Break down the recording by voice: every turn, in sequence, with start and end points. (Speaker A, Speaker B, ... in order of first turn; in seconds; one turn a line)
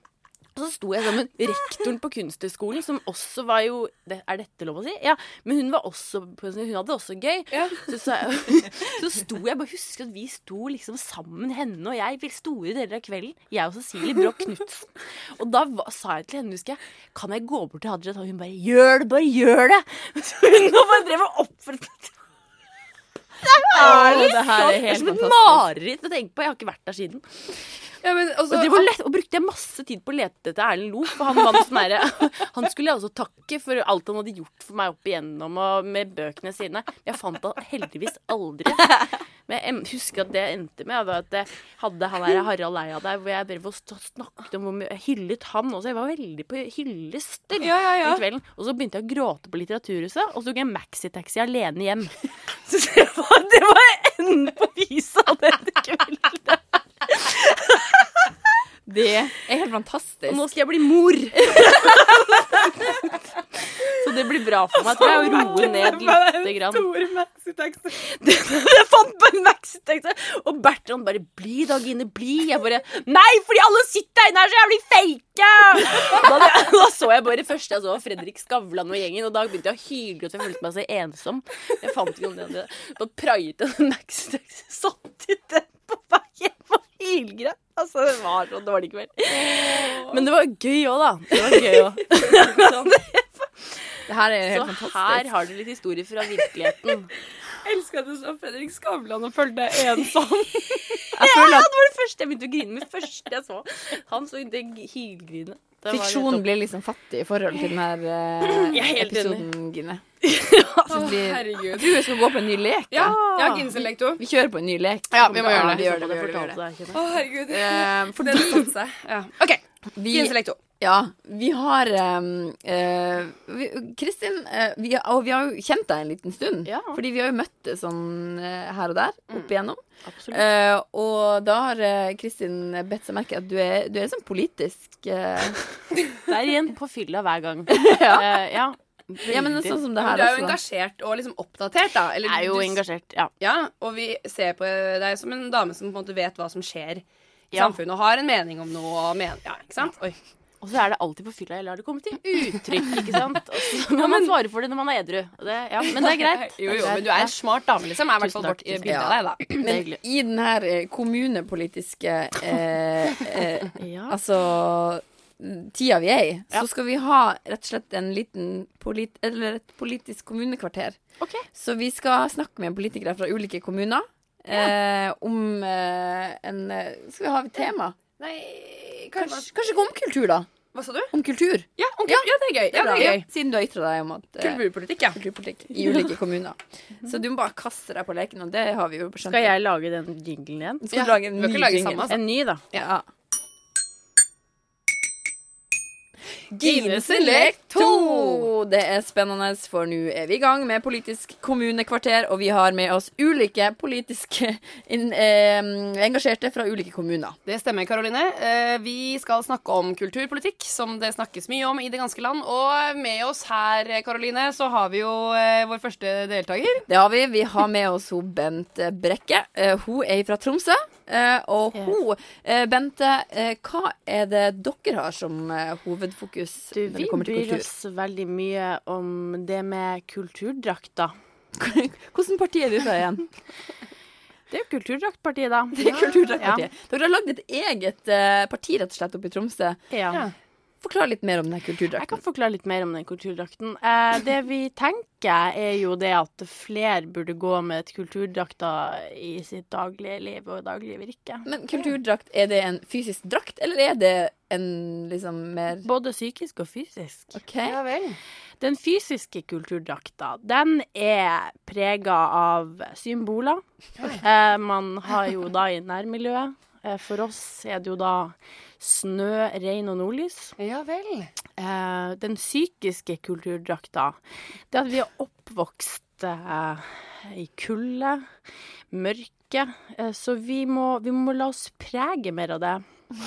Speaker A: 0.5-22.1
Speaker B: 7.5-7.8
Speaker A: 23.4-27.4
Speaker C: 23.6-25.7
Speaker B: 28.0-28.9
Speaker A: 28.5-58.2
Speaker B: 47.6-48.2
Speaker C: 58.9-60.5
Speaker A: 60.3-66.9
Speaker C: 61.6-62.2
Speaker B: 64.9-68.0
Speaker A: 67.9-97.1
Speaker B: 89.4-90.2
Speaker B: 92.1-93.0
Speaker C: 94.1-95.3
Speaker B: 97.6-101.0
Speaker A: 100.0-106.4
Speaker C: 101.1-101.7
Speaker C: 105.9-110.0
Speaker A: 108.4-109.5
Speaker A: 110.2-111.0
Speaker B: 110.9-112.1
Speaker C: 110.9-113.2
Speaker B: 112.9-114.2
Speaker A: 113.0-113.7
Speaker C: 114.2-116.6
Speaker A: 115.1-117.2
Speaker B: 115.3-115.8
Speaker B: 116.9-120.6
Speaker C: 117.5-118.7
Speaker C: 120.0-135.6
Speaker A: 126.6-127.0
Speaker A: 130.1-130.4
Speaker A: 136.2-139.8
Speaker C: 137.7-138.6
Speaker C: 139.2-140.6
Speaker B: 140.0-142.8
Speaker A: 142.2-143.3
Speaker B: 143.4-150.2
Speaker A: 147.5-147.8
Speaker A: 150.6-160.0
Speaker B: 153.8-154.3
Speaker B: 155.8-159.5
Speaker C: 158.8-171.0
Speaker A: 163.8-164.2
Speaker A: 171.2-171.4
Speaker C: 171.5-178.0
Speaker B: 178.2-179.5
Speaker C: 179.2-180.5
Speaker B: 180.7-181.1
Speaker C: 181.1-189.5
Speaker B: 181.8-183.3
Speaker B: 184.4-185.2
Speaker A: 189.2-190.8
Speaker C: 190.8-192.2
Speaker B: 190.9-192.9
Speaker A: 192.1-192.6
Speaker C: 192.7-193.1
Speaker C: 196.5-207.4
Speaker B: 196.5-198.5
Speaker B: 207.4-216.9
Speaker C: 216.9-227.7
Speaker A: 226.7-231.1
Speaker C: 231.6-233.3
Speaker A: 234.5-236.7
Speaker C: 235.8-239.8
Speaker B: 235.8-236.2
Speaker A: 239.9-240.2
Speaker C: 240.8-242.2
Speaker A: 241.9-251.5
Speaker C: 251.4-255.8
Speaker A: 255.8-257.4
Speaker C: 257.3-257.8
Speaker B: 257.6-258.2
Speaker A: 258.6-270.6
Speaker B: 270.6-271.3
Speaker A: 271.6-274.2
Speaker A: 274.7-278.3
Speaker A: 278.9-282.8